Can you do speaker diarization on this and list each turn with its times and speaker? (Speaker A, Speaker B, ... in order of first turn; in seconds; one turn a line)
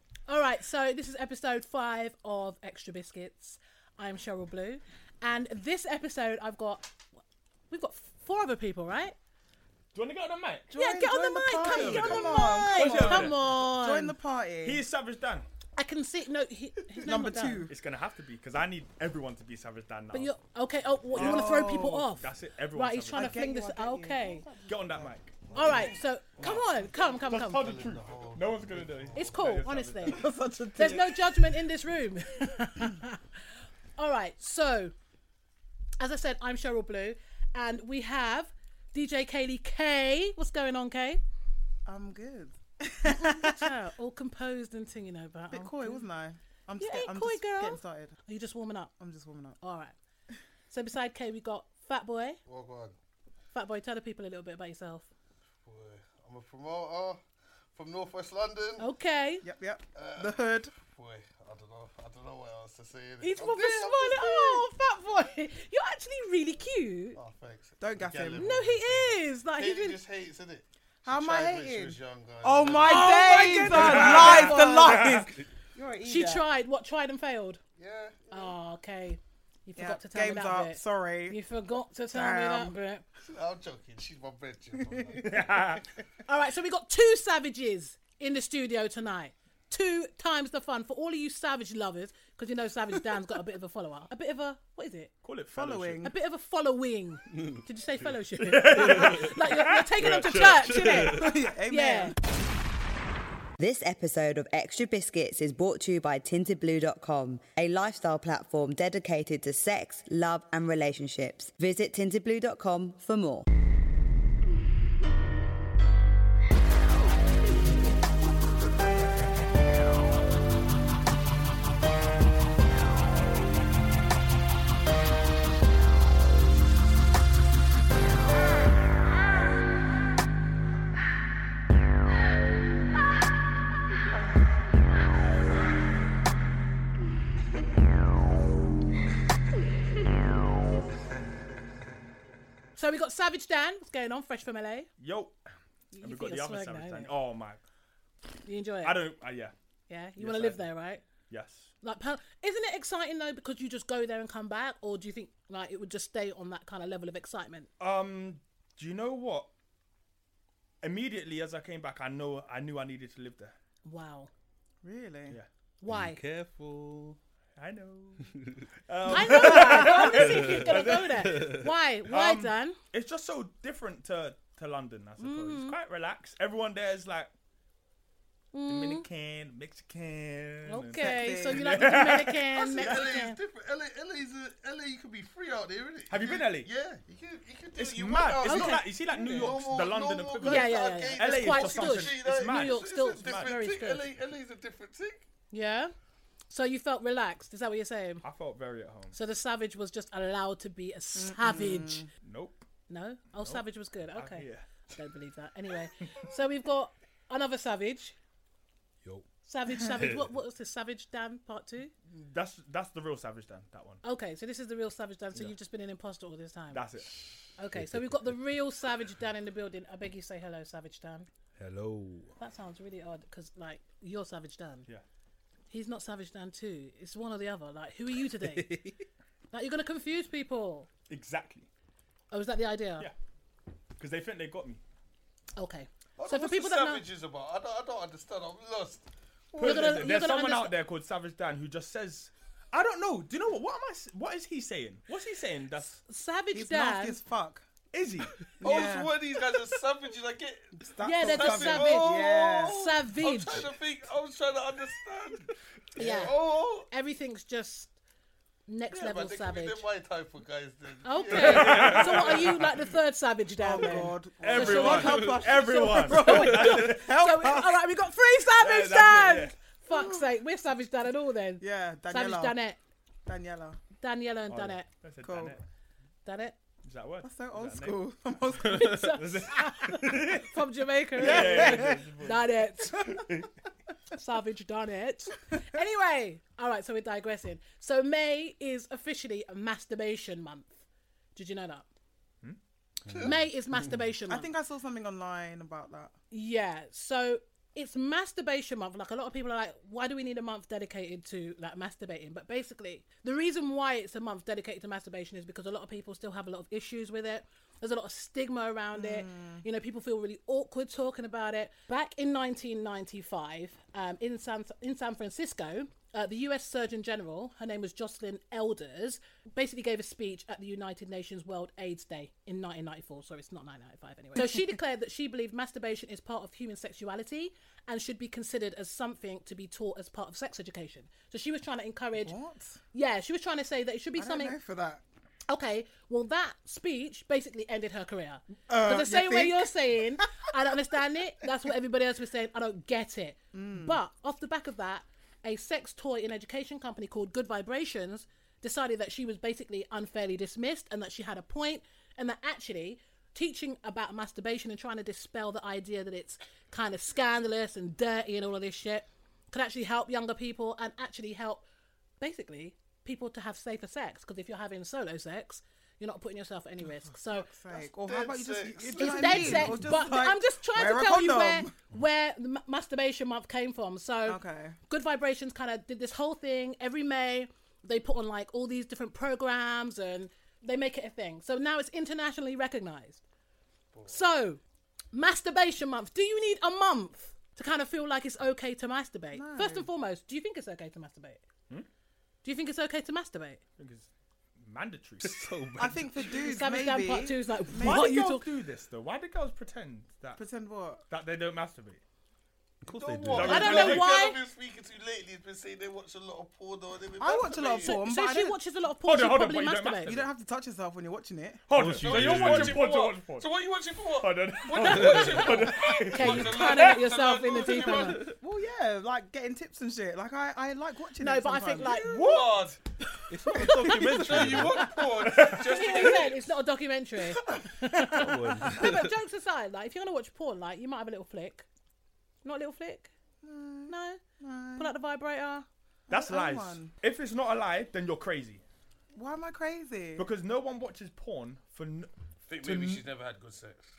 Speaker A: 0.3-7.0
Speaker A: 7.7-9.2
Speaker B: 9.9-10.7
Speaker C: 10.7-14.8
Speaker A: 10.7-14.2
Speaker B: 11.6-13.5
Speaker B: 14.6-15.5
Speaker A: 15.8-17.7
Speaker C: 17.0-17.7
Speaker B: 17.7-20.3
Speaker A: 20.1-24.5
Speaker C: 21.1-22.1
Speaker B: 21.1-23.4
Speaker C: 23.1-25.1
Speaker B: 24.7-25.8
Speaker D: 25.5-26.0
Speaker A: 25.5-27.7
Speaker B: 26.4-26.7
Speaker D: 26.9-29.3
Speaker B: 27.3-30.3
Speaker A: 29.1-33.2
Speaker C: 30.1-31.5
Speaker A: 34.0-34.9
Speaker A: 36.0-41.2
Speaker C: 41.9-43.7
Speaker A: 43.0-46.1
Speaker C: 45.5-48.1
Speaker A: 46.8-48.9
Speaker C: 49.0-49.6
Speaker A: 49.6-49.9
Speaker A: 50.7-52.4
Speaker D: 52.5-53.0
Speaker A: 53.5-55.1
Speaker D: 55.6-57.2
Speaker D: 57.7-58.9
Speaker A: 58.8-59.5
Speaker C: 59.4-60.7
Speaker D: 59.9-64.6
Speaker A: 63.2-67.2
Speaker D: 67.2-73.4
Speaker C: 67.8-68.5
Speaker A: 68.4-70.0
Speaker C: 71.0-76.5
Speaker A: 72.8-75.1
Speaker B: 73.5-75.3
Speaker A: 76.0-77.6
Speaker D: 77.8-78.5
Speaker A: 78.3-83.0
Speaker C: 79.8-81.4
Speaker C: 82.1-82.7
Speaker D: 83.2-85.4
Speaker C: 84.8-85.5
Speaker B: 85.2-85.8
Speaker A: 86.3-95.1
Speaker B: 95.2-96.0
Speaker C: 95.5-96.1
Speaker A: 96.0-102.2
Speaker B: 98.4-100.3
Speaker E: 98.8-99.4
Speaker E: 100.0-101.4
Speaker C: 101.0-102.2
Speaker F: 103.6-113.5
Speaker A: 142.8-144.9
Speaker B: 145.0-145.4
Speaker A: 145.9-147.1
Speaker B: 146.0-147.6
Speaker A: 148.5-149.0
Speaker B: 148.8-149.5
Speaker A: 149.9-151.0
Speaker B: 150.2-150.7
Speaker B: 151.3-151.7
Speaker A: 151.8-157.7
Speaker B: 157.8-159.5
Speaker B: 160.8-163.6
Speaker A: 163.8-164.3
Speaker C: 164.8-165.4
Speaker A: 165.8-166.2
Speaker E: 165.9-167.2
Speaker B: 167.6-168.3
Speaker E: 168.3-168.6
Speaker B: 168.9-171.3
Speaker A: 169.1-172.8
Speaker E: 170.0-171.7
Speaker B: 172.1-177.3
Speaker A: 175.2-175.8
Speaker A: 178.5-179.1
Speaker B: 178.7-183.1
Speaker A: 180.7-183.4
Speaker C: 180.9-181.8
Speaker D: 182.5-195.2
Speaker B: 186.1-186.7
Speaker B: 187.8-193.6
Speaker A: 188.4-189.5
Speaker A: 190.4-194.1
Speaker A: 195.5-195.9
Speaker A: 196.5-198.2
Speaker B: 198.2-199.2
Speaker A: 199.1-202.1
Speaker C: 201.2-202.1
Speaker B: 202.2-202.6
Speaker A: 202.9-208.2
Speaker B: 204.2-204.6
Speaker E: 209.0-210.3
Speaker A: 209.4-211.9
Speaker B: 212.1-214.0
Speaker A: 214.0-216.8
Speaker B: 216.7-217.3
Speaker A: 217.6-221.3
Speaker E: 217.7-218.4
Speaker E: 221.6-222.4
Speaker A: 222.4-224.9
Speaker A: 225.7-228.7
Speaker E: 228.3-229.1
Speaker A: 229.5-230.9
Speaker B: 231.1-231.7
Speaker A: 232.3-233.1
Speaker B: 234.0-234.8
Speaker A: 235.6-237.1
Speaker D: 236.2-240.1
Speaker A: 239.6-240.8
Speaker B: 239.6-246.0
Speaker A: 246.1-247.2
Speaker C: 246.5-247.7
Speaker B: 247.9-248.4
Speaker C: 248.6-249.2
Speaker D: 248.6-256.9
Speaker C: 250.8-252.8
Speaker A: 251.0-253.7
Speaker A: 256.0-257.9
Speaker A: 258.7-259.9
Speaker D: 258.9-262.6
Speaker A: 261.0-272.8
Speaker B: 261.3-262.6
Speaker C: 263.6-267.7
Speaker B: 264.4-267.1
Speaker B: 268.6-269.6
Speaker C: 269.9-270.2
Speaker C: 271.6-272.6
Speaker C: 273.3-273.8
Speaker A: 274.0-274.9
Speaker B: 274.5-275.6
Speaker C: 275.2-275.6
Speaker A: 276.2-276.6
Speaker B: 276.8-278.0
Speaker C: 277.2-279.2
Speaker A: 278.7-283.2
Speaker B: 278.8-280.5
Speaker B: 281.2-283.5
Speaker C: 281.2-282.0
Speaker A: 284.1-290.8
Speaker A: 291.4-291.9
Speaker E: 293.1-293.4
Speaker D: 293.1-293.4
Speaker A: 293.2-294.5
Speaker C: 294.3-296.1
Speaker A: 296.3-332.4
Speaker C: 308.9-309.6
Speaker C: 324.4-324.8
Speaker C: 332.2-332.8
Speaker A: 332.9-334.6
Speaker C: 334.2-335.0
Speaker A: 335.5-361.6
Speaker C: 338.7-340.4
Speaker C: 343.5-344.0
Speaker A: 362.2-367.5
Speaker C: 366.9-371.7
Speaker D: 367.7-369.8
Speaker A: 368.9-383.2
Speaker E: 369.4-369.8
Speaker C: 374.3-374.8
Speaker D: 383.9-384.2
Speaker A: 384.1-384.6
Speaker A: 385.1-391.4
Speaker C: 389.3-389.9
Speaker A: 392.4-393.6
Speaker B: 393.8-395.4
Speaker E: 395.2-396.3
Speaker C: 395.8-398.2
Speaker A: 396.4-398.4
Speaker B: 397.8-400.4
Speaker C: 400.4-401.0
Speaker B: 401.1-402.0
Speaker E: 402.8-403.8
Speaker D: 402.9-408.0
Speaker B: 403.3-404.1
Speaker A: 403.5-404.4
Speaker C: 407.2-408.6
Speaker A: 407.8-410.1
Speaker B: 409.1-410.3
Speaker C: 410.1-411.6
Speaker B: 411.7-413.5
Speaker E: 411.7-412.8
Speaker D: 412.0-418.3
Speaker B: 414.2-416.9
Speaker A: 414.8-418.2
Speaker C: 418.2-422.1
Speaker A: 421.2-422.4
Speaker B: 421.9-422.6
Speaker D: 422.1-422.8
Speaker E: 423.3-424.9
Speaker A: 423.5-424.6
Speaker C: 423.6-424.1
Speaker D: 423.7-426.4
Speaker B: 425.2-426.1
Speaker A: 425.4-431.7
Speaker E: 428.1-429.1
Speaker A: 432.4-433.1
Speaker C: 433.4-434.9
Speaker A: 433.9-434.2
Speaker A: 434.8-435.7
Speaker C: 436.1-436.9
Speaker B: 436.1-438.6
Speaker C: 439.1-440.3
Speaker B: 440.2-443.0
Speaker D: 442.5-443.9